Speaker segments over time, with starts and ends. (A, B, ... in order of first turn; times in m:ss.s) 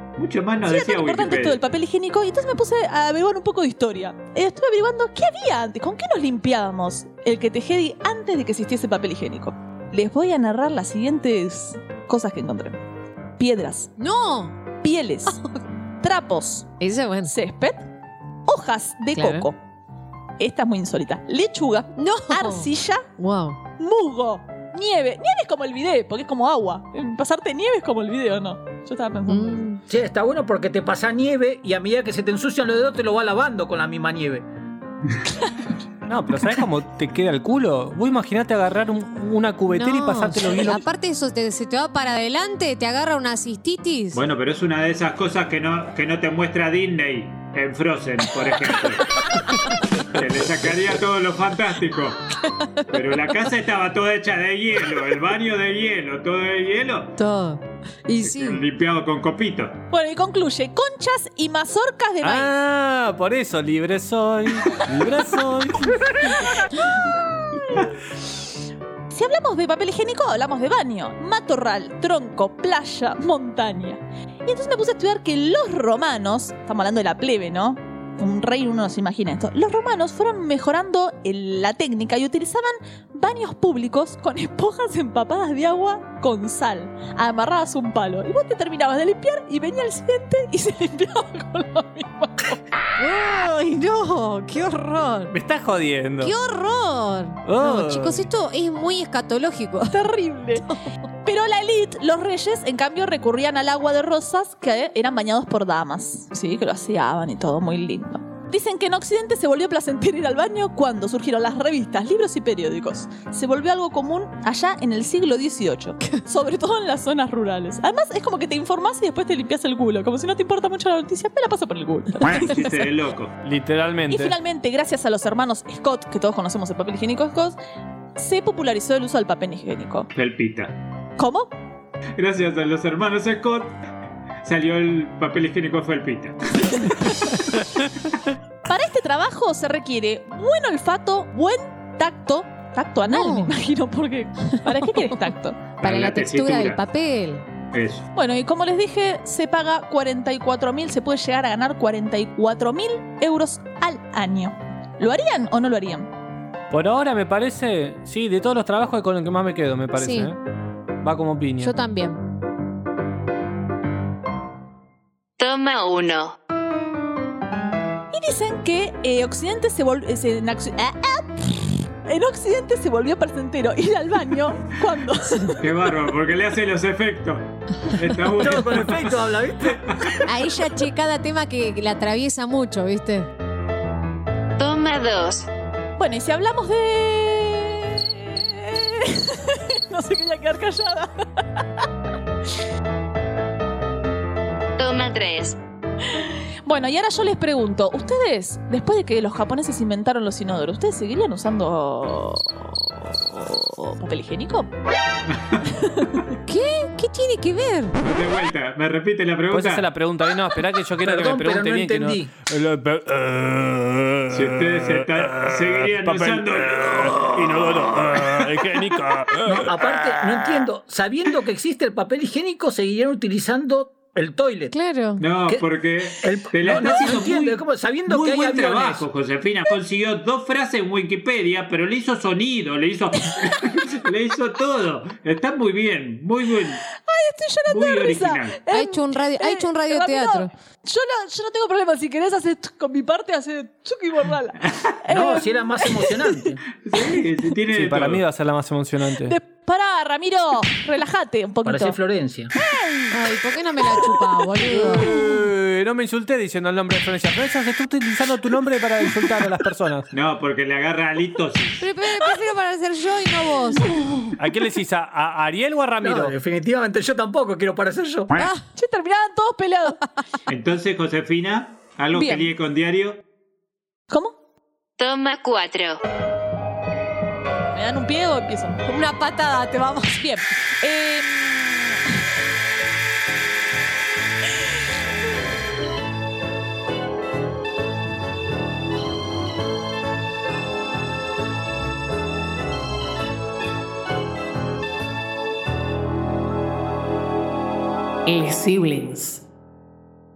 0:00.2-0:01.6 A
0:00.6-0:12.8 B
0:13.4-0:13.9 B
0:14.0-0:14.6 C
0:14.8-0:15.4 B
0:16.0-0:16.7 B
0:16.8-0:17.3 C
0:17.2-0:17.9 B
0:18.5-0:19.6 B
0:19.2-0:19.5 C
0:20.4-0:23.1 B
0:22.0-0:23.6 C
0:23.8-0:29.7 B
0:29.3-0:29.8 C
0:29.9-0:34.5 D
0:36.1-0:40.8 E
0:39.7-0:44.2 C
0:44.1-0:49.1 A
0:50.1-0:52.3 A
0:52.4-0:52.8 C
0:52.9-0:57.2 A
0:57.2-0:58.6 C
0:58.2-0:59.8 A
0:59.9-1:02.5 B
1:02.2-1:06.5 E
1:06.3-1:07.9 B
1:09.1-1:32.6 B
1:33.0-1:35.4 C
1:35.3-1:36.4 E
1:36.2-1:40.0 C
1:37.4-1:38.3 E
1:39.9-1:40.7 B
1:41.2-2:02.7 B
2:02.3-2:03.3 A
2:03.4-2:04.4 E
2:04.1-2:07.6 B
2:08.2-2:10.1 B
2:10.1-2:10.8 A
2:11.2-2:11.5 B
2:12.2-2:13.8 A
2:14.4-2:17.0 A
2:18.7-2:25.6 B
2:23.1-2:23.5 C
2:24.6-2:25.1 C
2:25.8-2:26.8 A
2:25.8-2:27.5 C
2:27.7-2:28.1 A
2:28.2-2:36.1 B
2:36.7-2:40.4 E
2:40.0-2:40.3 C
2:41.0-2:41.7 E
2:41.6-2:42.2 C
2:45.4-2:46.4 F
2:48.1-2:55.6 B
2:55.6-2:59.1 A
2:58.3-3:00.2 D
2:59.9-3:00.2 A
3:00.2-3:03.3 C
3:04.6-3:05.5 F
3:06.0-3:11.9 B
3:14.8-3:15.6 F
3:16.0-3:24.7 B
3:25.3-3:25.7 A
3:25.7-3:26.2 B
3:26.5-3:28.0 C
3:28.0-3:29.9 A
3:29.5-3:40.6 E
3:31.0-3:32.3 D
3:34.3-3:39.0 A
3:39.5-3:44.7 D
3:44.7-3:45.2 C
3:45.2-3:56.8 A
3:45.5-3:49.1 D
3:56.9-4:06.4 B
3:57.7-3:58.6 A
3:58.7-4:00.5 C
4:05.1-4:06.6 D
4:06.8-4:08.2 A
4:07.7-4:09.4 E
4:09.2-4:12.0 B
4:11.6-4:12.5 D
4:12.6-4:15.4 B
4:13.1-4:15.1 C
4:14.7-4:20.1 E
4:20.1-4:21.9 A
4:21.8-4:23.9 C
4:24.4-4:26.3 E
4:26.0-4:28.4 D
4:28.4-4:28.6 C
4:28.8-4:30.0 B
4:30.5-4:33.2 A
4:32.1-4:32.4 B
4:34.1-4:34.4 B
4:35.0-4:36.0 F
4:37.7-4:38.9 B
4:38.9-4:40.3 C
4:40.2-4:42.0 B
4:58.3-4:59.4 E